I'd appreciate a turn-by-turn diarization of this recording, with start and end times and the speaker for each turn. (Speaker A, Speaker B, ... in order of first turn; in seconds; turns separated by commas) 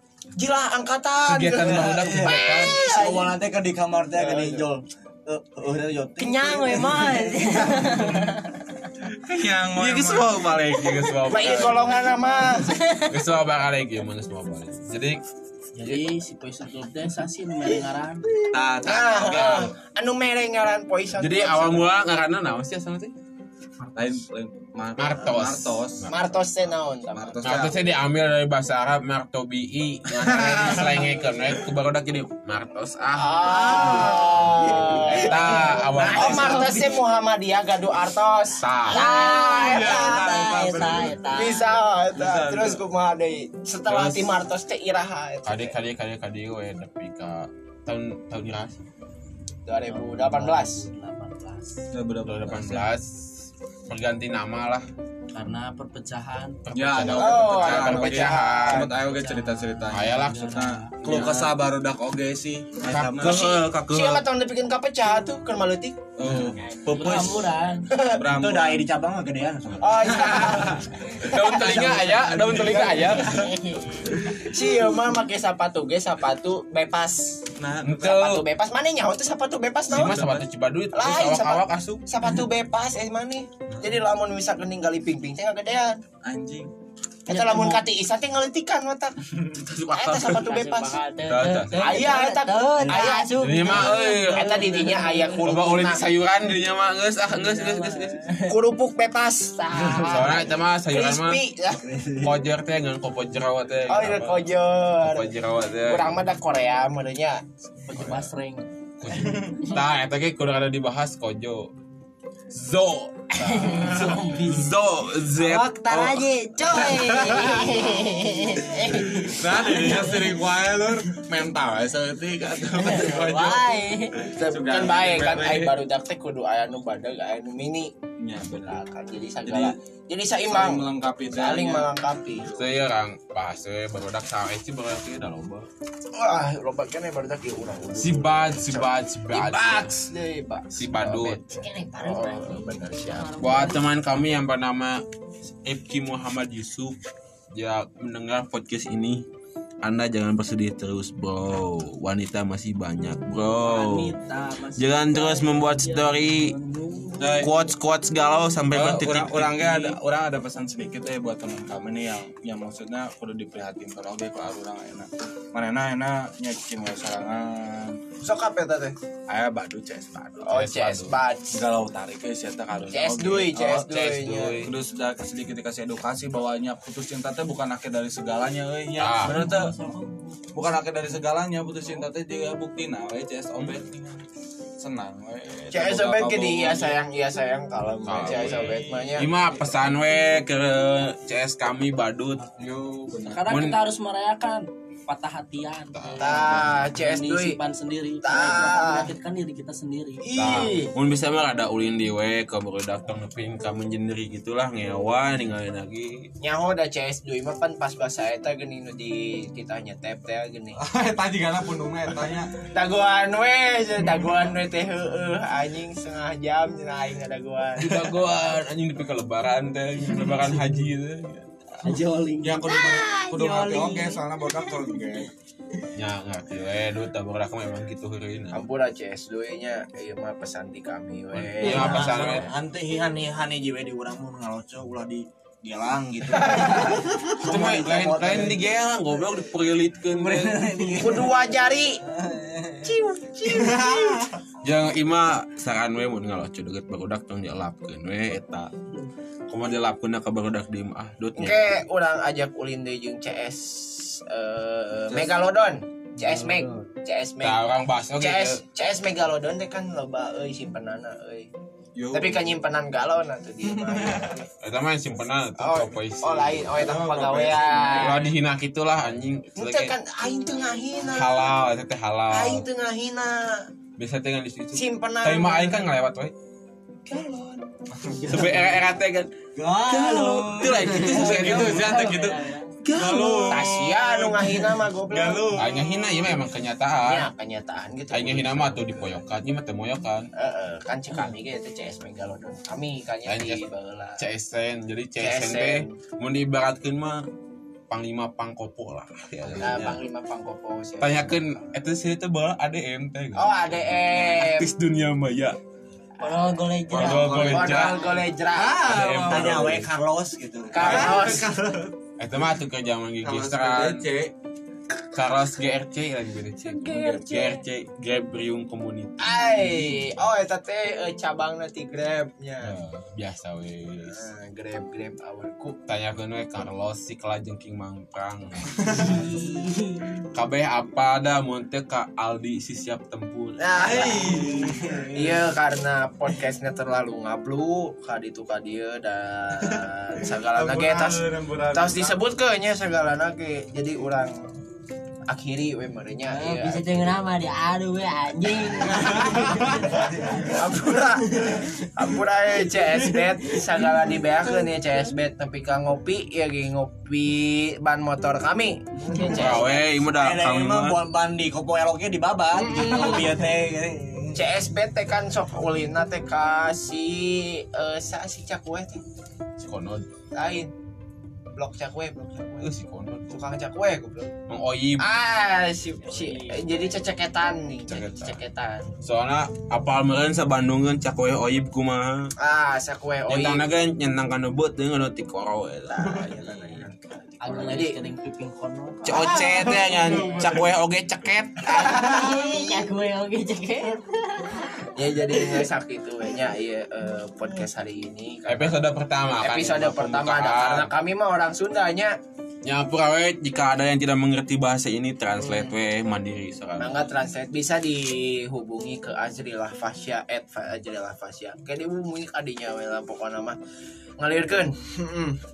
Speaker A: 0.3-3.3, Speaker B: 1.2-2.7, Speaker C: 1.6-8.2, Speaker A: 4.1-4.6, Speaker D: 6.2-8.6, Speaker E: 9.1-10.5, Speaker B: 9.7-12.1, Speaker A: 11.3-12.8, Speaker D: 12.6-13.1, Speaker B: 13.1-15.2, Speaker D: 15.8-18.5, Speaker B: 15.8-16.1, Speaker E: 18.4-19.7, Speaker A: 18.8-21.9, Speaker B: 19.2-19.6, Speaker B: 21.2-23.1, Speaker E: 23.9-26.1, Speaker B: 25.0-26.4, Speaker A: 26.1-27.5, Speaker E: 27.1-27.8, Speaker B: 27.4-36.7, Speaker E: 30.2-31.0, Speaker A: 33.1-40.2, Speaker D: 33.8-34.1, Speaker D: 35.4-36.9, Speaker B: 38.6-41.1, Speaker D: 38.9-41.7, Speaker E: 39.3-41.2, Speaker A: 41.3-45.7, Speaker E: 42.1-42.8, Speaker B: 43.9-44.4, Speaker B: 45.5-48.8, Speaker A: 49.6-50.8, Speaker D: 49.9-51.8, Speaker E: 51.9-52.9, Speaker B: 52.2-54.9, Speaker D: 55.3-56.6, Speaker B: 56.6-59.0, Speaker E: 56.7-63.4, Speaker A: 57.1-58.9, Speaker D: 59.0-61.0, Speaker B: 59.9-61.5, Speaker B: 62.9-64.2, Speaker A: 63.2-66.0, Speaker E: 66.2-68.8, Speaker C: 66.2-66.5, Speaker D: 66.6-67.9, Speaker B: 67.0-67.4, Speaker A: 67.9-68.2, Speaker C: 68.2-70.6, Speaker A: 69.8-71.4, Speaker E: 70.2-70.8, Speaker B: 71.2-73.5, Speaker C: 71.4-73.2, Speaker D: 72.9-74.0, Speaker A: 74.3-77.4, Speaker E: 77.6-78.1, Speaker B: 77.8-78.4, Speaker A: 78.0-80.2, Speaker B: 79.9-82.0, Speaker E: 79.9-80.4, Speaker A: 80.9-86.0, Speaker E: 86.2-86.7, Speaker A: 87.2-89.2, Speaker D: 87.3-87.8, Speaker B: 89.6-90.5, Speaker A: 89.9-91.0, Speaker D: 90.2-95.5, Speaker B: 91.3-92.1, Speaker A: 91.8-96.0, Speaker B: 93.3-94.6, Speaker B: 95.4-98.2, Speaker D: 97.3-98.6, Speaker A: 98.5-101.8, Speaker D: 99.8-100.3, Speaker B: 99.9-101.4, Speaker C: 101.8-102.4, Speaker B: 102.2-106.1, Speaker A: 103.9-105.3, Speaker A: 105.8-107.4, Speaker D: 107.8-108.7, Speaker B: 107.9-108.3, Speaker B: 109.0-111.7, Speaker B: 112.5-117.8, Speaker D: 113.3-114.7, Speaker D: 115.3-120.3, Speaker E: 116.7-117.9, Speaker E: 118.7-125.7, Speaker D: 122.8-124.3, Speaker A: 124.3-127.9, Speaker E: 128.2-128.7, Speaker A: 128.6-132.5, Speaker E: 129.4-129.7, Speaker E: 130.4-132.7, Speaker B: 132.6-135.7, Speaker A: 136.1-143.3, Speaker B: 138.0-139.9, Speaker B: 140.7-141.4, Speaker D: 141.5-143.9, Speaker B: 143.4-145.0, Speaker B: 145.6-147.0, Speaker B: 147.5-149.2, Speaker B: 149.8-154.1, Speaker D: 153.6-157.5, Speaker B: 154.7-156.6, Speaker E: 157.2-157.5, Speaker B: 157.4-160.0, Speaker E: 158.7-168.0, Speaker A: 168.2-168.9, Speaker E: 169.3-170.4, Speaker A: 170.4-171.6, Speaker B: 170.4-171.2, Speaker E: 171.5-173.9, Speaker A: 172.9-174.6, Speaker B: 173.9-174.7, Speaker E: 174.6-179.7, Speaker B: 179.0-179.5, Speaker D: 179.2-180.4, Speaker E: 180.5-184.2, Speaker E: 184.8-187.0, Speaker A: 185.7-189.3, Speaker B: 188.1-192.6, Speaker E: 188.1-189.2, Speaker E: 192.5-193.5, Speaker D: 193.2-200.2, Speaker B: 193.5-193.8, Speaker B: 195.9-196.7, Speaker A: 196.2-197.6, Speaker A: 198.2-199.1, Speaker A: 200.2-200.9, Speaker B: 200.3-206.3, Speaker A: 206.4-210.8, Speaker E: 210.8-212.5, Speaker A: 212.6-218.1, Speaker B: 217.8-221.7, Speaker D: 221.8-225.8, Speaker E: 222.4-225.3, Speaker B: 225.9-228.7, Speaker A: 228.5-232.4, Speaker B: 231.3-232.5, Speaker D: 231.6-232.3, Speaker C: 231.6-238.6, Speaker B: 237.4-240.8, Speaker C: 240.1-241.3, Speaker A: 240.9-242.0, Speaker C: 242.2-242.9, Speaker A: 242.8-244.3, Speaker C: 243.5-244.3, Speaker B: 244.6-248.7, Speaker B: 249.5-251.8, Speaker A: 251.3-257.6, Speaker D: 256.3-256.7, Speaker B: 257.4-258.6, Speaker A: 258.2-261.5, Speaker E: 261.9-262.5, Speaker A: 262.1-264.5, Speaker E: 263.6-264.4, Speaker B: 264.6-266.8, Speaker A: 265.6-268.2, Speaker E: 266.7-268.3, Speaker B: 267.9-269.9, Speaker A: 269.6-271.6, Speaker B: 271.1-272.6, Speaker A: 272.3-273.6, Speaker B: 274.0-276.3, Speaker A: 274.7-275.8, Speaker A: 277.1-277.6, Speaker D: 278.0-278.8, Speaker B: 278.3-279.3, Speaker D: 279.6-282.7, Speaker B: 279.9-282.0, Speaker E: 281.0-285.8, Speaker B: 282.8-283.6, Speaker A: 283.5-285.7, Speaker B: 285.5-287.3, Speaker A: 287.0-288.7, Speaker B: 288.1-290.3, Speaker A: 290.4-294.2, Speaker B: 293.3-293.6, Speaker B: 294.2-297.2, Speaker A: 295.1-296.0, Speaker B: 297.9-300.0, Speaker A: 299.6-301.5, Speaker B: 301.0-305.6, Speaker A: 303.3-304.7, Speaker D: 306.2-307.9, Speaker A: 306.2-308.9, Speaker B: 306.9-308.1, Speaker E: 308.5-309.7, Speaker C: 308.6-311.9, Speaker B: 308.8-309.9, Speaker A: 310.7-311.5, Speaker E: 310.8-311.9, Speaker B: 310.8-311.2, Speaker B: 312.2-314.0, Speaker E: 313.2-314.3, Speaker B: 315.1-320.1, Speaker A: 316.6-317.6, Speaker A: 319.2-322.8, Speaker B: 322.6-324.2, Speaker A: 324.0-325.8, Speaker B: 325.9-329.3, Speaker D: 328.9-330.2, Speaker B: 330.3-333.7, Speaker A: 333.6-334.4, Speaker E: 333.8-335.1, Speaker C: 333.9-335.4, Speaker A: 335.1-341.2, Speaker E: 339.6-342.2, Speaker A: 341.7-344.4, Speaker A: 345.3-347.2, Speaker D: 346.3-350.0, Speaker E: 349.1-349.7, Speaker C: 349.9-350.5, Speaker A: 350.4-359.9, Speaker D: 351.3-351.6, Speaker B: 359.3-361.0, Speaker C: 360.1-364.5, Speaker A: 362.5-363.5, Speaker A: 364.3-369.0, Speaker B: 369.6-370.1, Speaker A: 370.3-370.7, Speaker A: 371.6-372.7, Speaker B: 372.6-373.4, Speaker A: 373.3-374.3, Speaker B: 374.5-375.1, Speaker A: 375.0-378.9, Speaker D: 376.1-376.8, Speaker B: 377.9-378.4, Speaker B: 379.0-382.3, Speaker A: 382.4-383.6, Speaker B: 383.3-386.9, Speaker A: 385.9-388.0, Speaker D: 387.4-390.5, Speaker B: 389.0-392.0, Speaker E: 389.1-390.7, Speaker A: 391.7-392.5, Speaker D: 391.9-395.6, Speaker A: 394.9-398.8, Speaker B: 398.5-400.9, Speaker A: 399.4-402.1, Speaker B: 402.6-407.0, Speaker A: 405.4-405.7, Speaker A: 406.8-413.6, Speaker A: 414.2-415.4